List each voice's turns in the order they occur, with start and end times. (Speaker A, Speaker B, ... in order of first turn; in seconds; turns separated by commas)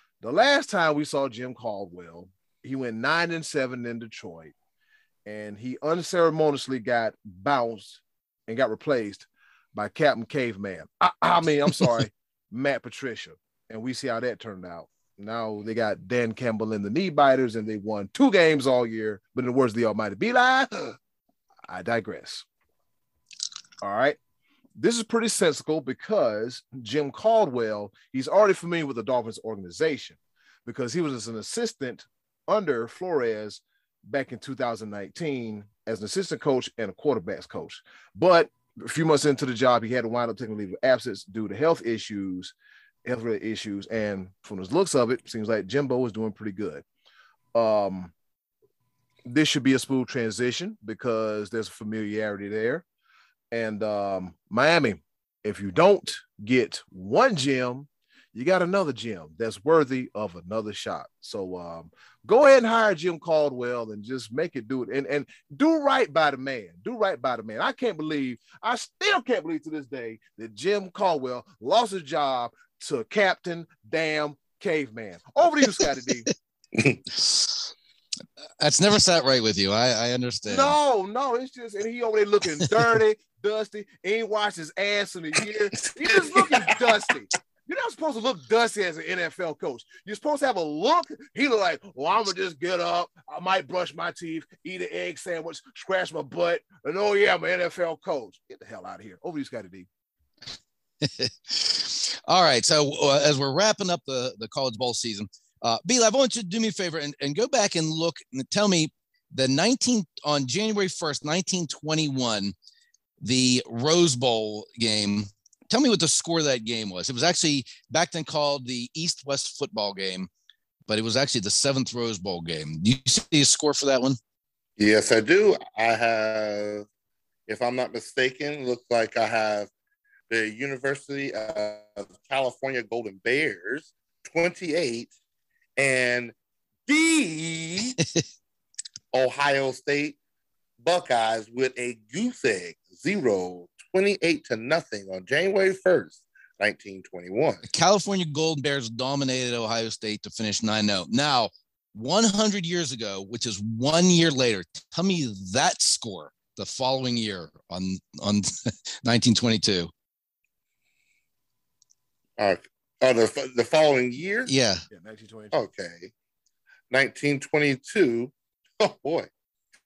Speaker A: 0.2-4.5, Speaker A: 5.2-20.9, Speaker A: 21.7-22.4, Speaker A: 23.8-24.2, Speaker A: 24.8-42.5, Speaker A: 43.0-46.8, Speaker A: 47.5-48.1, Speaker A: 49.2-52.8, Speaker A: 53.5-76.3, Speaker B: 76.7-77.0, Speaker C: 77.1-77.7, Speaker C: 78.6-80.8, Speaker A: 80.5-99.9, Speaker B: 85.8-86.8, Speaker C: 101.0-112.5, Speaker C: 113.2-120.3, Speaker C: 120.9-124.2, Speaker B: 124.8-126.8, Speaker B: 127.5-129.7, Speaker B: 130.3-135.1, Speaker B: 135.8-136.3, Speaker B: 136.9-138.0, Speaker B: 139.1-140.2, Speaker B: 140.8-147.6, Speaker C: 147.7-159.9, Speaker B: 162.4-164.5, Speaker C: 164.4-164.8, Speaker A: 164.9-165.5, Speaker B: 165.5-166.1, Speaker B: 166.9-169.3